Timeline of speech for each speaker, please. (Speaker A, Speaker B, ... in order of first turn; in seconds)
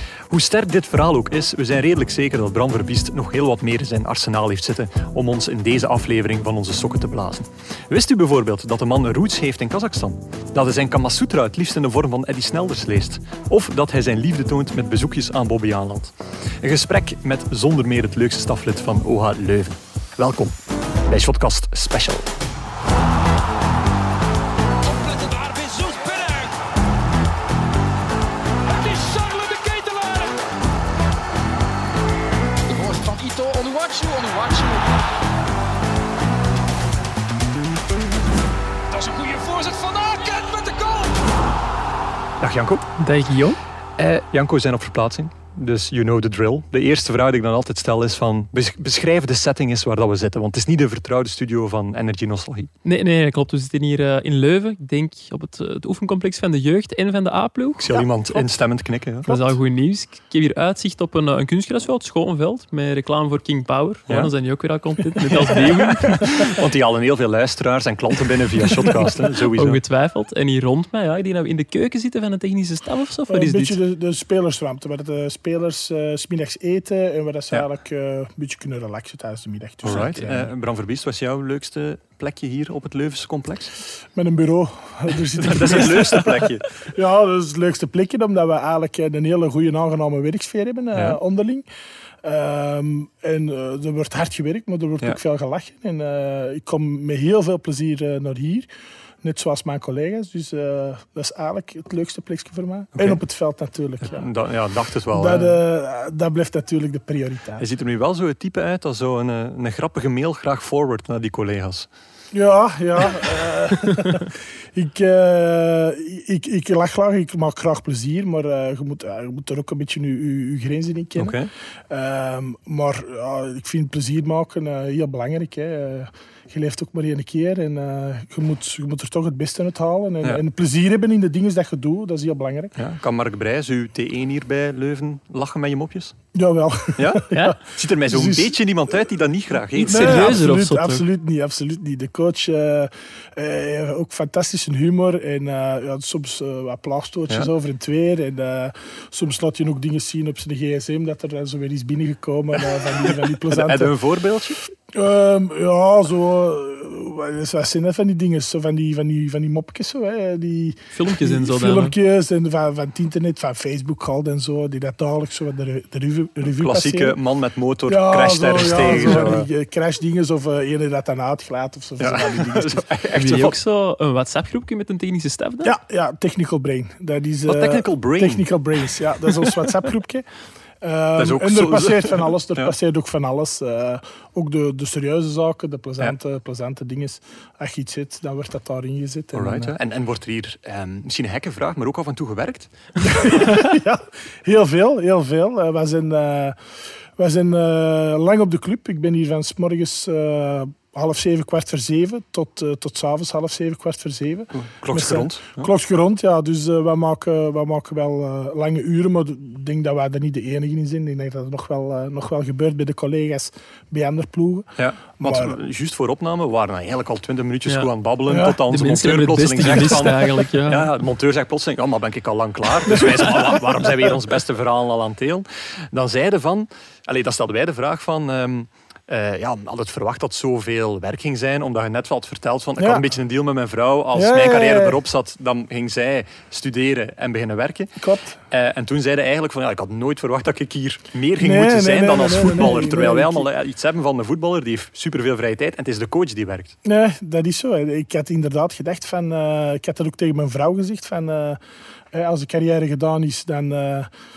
Speaker A: 0.3-22.3, 42.4-42.9, 44.0-52.7, 57.8-59.3, 65.3-69.8, 79.8-83.7, 85.3-86.7, 102.9-103.2, 104.0-105.6, 107.6-111.9, 121.2-121.5, 132.8-136.2, 136.9-140.4, 153.2-154.6, 166.5-169.5, 172.0-173.6, 177.4-178.9, 181.2-182.7, 189.3-192.7, 204.5-205.7, 214.8-237.9, 238.5-246.8
Speaker B: 24.8-26.6, 28.6-30.4, 32.7-34.9, 38.9-41.2
Speaker C: 43.0-43.6, 52.8-58.0, 59.2-66.5, 69.5-73.8, 137.3-137.6, 139.7-141.0, 160.9-161.9, 173.1-175.7, 218.7-220.9
Speaker D: 59.2-59.5, 73.3-80.5, 84.1-91.7, 92.2-98.7, 99.2-104.3, 105.1-107.6, 112.3-132.8, 136.3-137.5, 138.0-138.6, 139.8-153.9, 154.9-167.2, 167.8-172.8, 175.6-180.3, 180.8-189.8, 193.0-196.6, 197.2-215.6, 218.3-218.6, 222.9-224.0, 232.8-233.1, 234.1-235.0, 238.0-238.4, 241.4-243.5, 246.8-251.6, 252.1-254.1